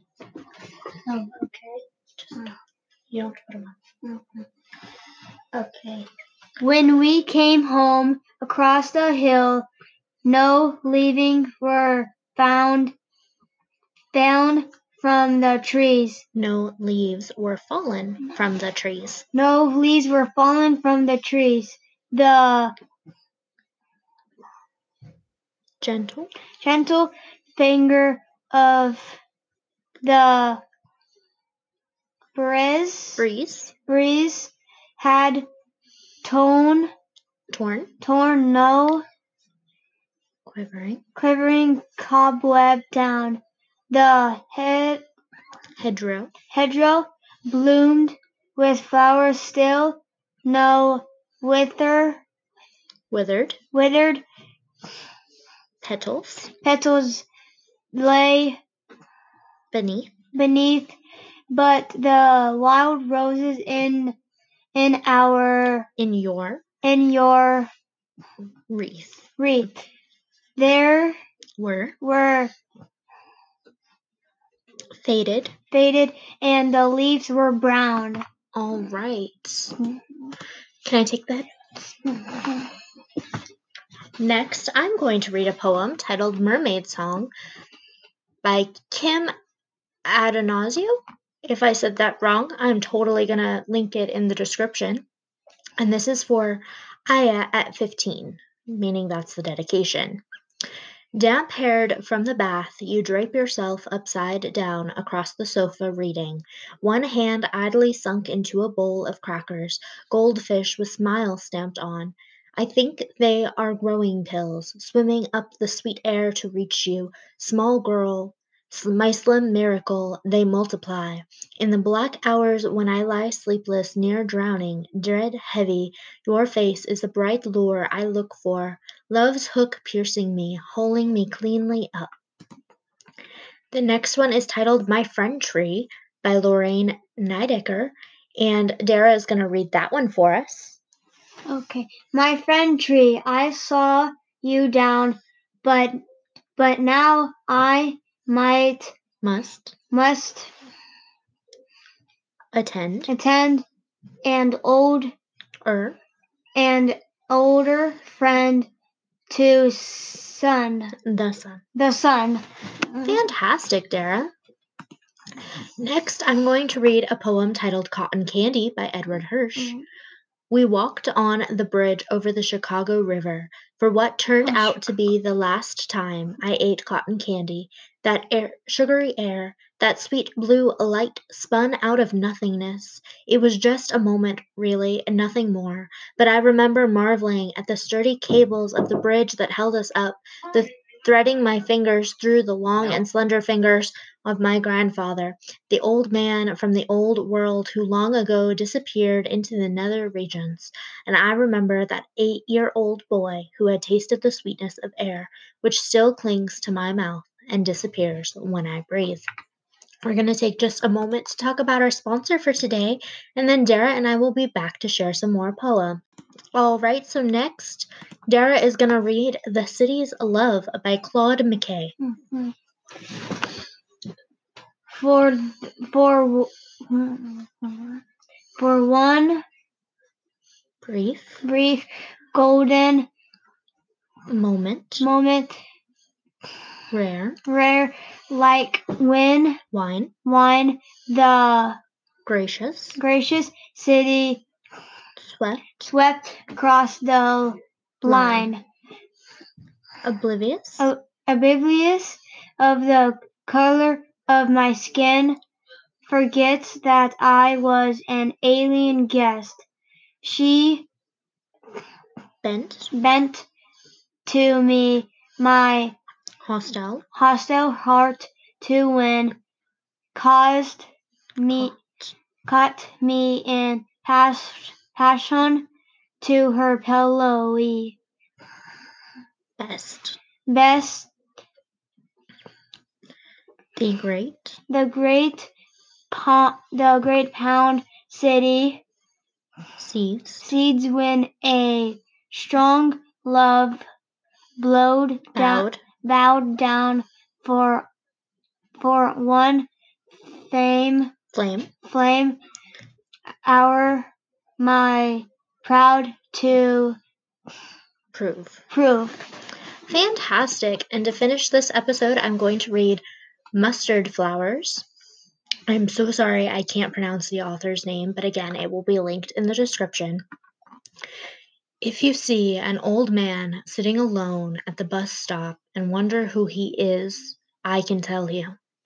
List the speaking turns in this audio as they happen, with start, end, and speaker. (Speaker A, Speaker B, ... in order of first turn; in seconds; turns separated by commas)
Speaker A: 1.1-1.8, Speaker B: 3.1-3.7, Speaker A: 4.0-4.4, Speaker A: 6.6-9.7, Speaker A: 10.2-12.9, Speaker A: 14.1-16.2, Speaker B: 16.3-19.2, Speaker A: 19.3-22.7, Speaker B: 25.8-26.3, Speaker A: 26.6-29.2, Speaker A: 30.0-30.6, Speaker A: 32.3-33.2, Speaker B: 33.2-33.7, Speaker A: 33.9-35.5, Speaker A: 36.2-36.9, Speaker B: 37.5-37.9, Speaker A: 38.0-39.0, Speaker B: 40.5-41.0, Speaker A: 41.1-45.0, Speaker B: 45.8-46.3, Speaker A: 46.5-52.2, Speaker B: 53.1-53.6, Speaker A: 53.7-54.2, Speaker B: 55.8-56.5, Speaker A: 56.6-57.2, Speaker A: 57.9-58.6, Speaker B: 59.7-60.1, Speaker A: 60.3-61.0, Speaker A: 61.5-64.2, Speaker A: 64.7-65.9, Speaker B: 66.0-66.6, Speaker A: 66.8-67.7, Speaker B: 68.7-69.3, Speaker A: 69.4-69.8, Speaker A: 70.5-71.2, Speaker B: 71.6-72.0, Speaker A: 72.0-72.5, Speaker B: 75.0-75.5, Speaker A: 75.7-78.2, Speaker B: 78.5-79.8, Speaker B: 80.8-81.5, Speaker A: 82.2-82.5, Speaker B: 84.2-87.3, Speaker B: 88.4-89.3, Speaker B: 90.0-95.0, Speaker B: 95.8-100.2, Speaker B: 101.1-132.1, Speaker B: 133.7-140.8, Speaker A: 141.5-146.0, Speaker A: 146.6-148.9, Speaker B: 149.2-149.8, Speaker A: 149.9-150.5, Speaker B: 152.5-153.1, Speaker A: 153.1-153.6, Speaker A: 154.2-155.1, Speaker B: 155.6-156.0, Speaker A: 156.5-158.7, Speaker A: 159.3-160.9, Speaker B: 161.0-161.6, Speaker A: 161.7-163.2, Speaker B: 163.0-164.3, Speaker B: 165.8-169.7, Speaker B: 170.5-209.2, Speaker A: 174.4-174.8, Speaker B: 210.0-216.0, Speaker B: 216.5-221.9, Speaker A: 222.0-222.5, Speaker A: 224.9-228.0, Speaker A: 228.6-229.4, Speaker B: 230.8-231.4, Speaker A: 231.4-233.1, Speaker B: 234.3-235.1, Speaker A: 235.0-235.6, Speaker B: 236.9-237.4, Speaker A: 237.4-239.6, Speaker B: 239.7-240.1, Speaker A: 240.2-241.8, Speaker B: 242.2-243.0, Speaker A: 243.0-244.4, Speaker B: 245.2-245.9, Speaker A: 245.8-248.6, Speaker B: 248.0-248.5, Speaker B: 250.0-250.9, Speaker A: 250.8-255.4, Speaker A: 256.1-259.6, Speaker A: 260.2-260.9, Speaker B: 262.4-262.9, Speaker A: 262.9-263.5, Speaker A: 264.2-265.9, Speaker B: 266.4-267.0, Speaker A: 267.1-269.3, Speaker A: 270.1-271.8, Speaker B: 271.5-272.1, Speaker A: 272.4-275.7, Speaker A: 276.2-278.0, Speaker B: 279.6-280.2, Speaker A: 280.5-281.1, Speaker B: 283.8-284.6, Speaker A: 284.7-285.5, Speaker A: 286.1-288.8, Speaker B: 289.8-290.5, Speaker A: 290.4-293.8, Speaker A: 294.6-297.9, Speaker B: 295.3-295.8, Speaker A: 298.8-299.7, Speaker A: 300.3-301.1, Speaker B: 301.3-301.7, Speaker A: 301.9-302.4, Speaker A: 303.4-307.0, Speaker B: 308.1-308.6, Speaker A: 308.7-309.2, Speaker B: 309.9-313.0, Speaker B: 313.5-314.9, Speaker B: 315.7-320.2, Speaker B: 321.8-328.6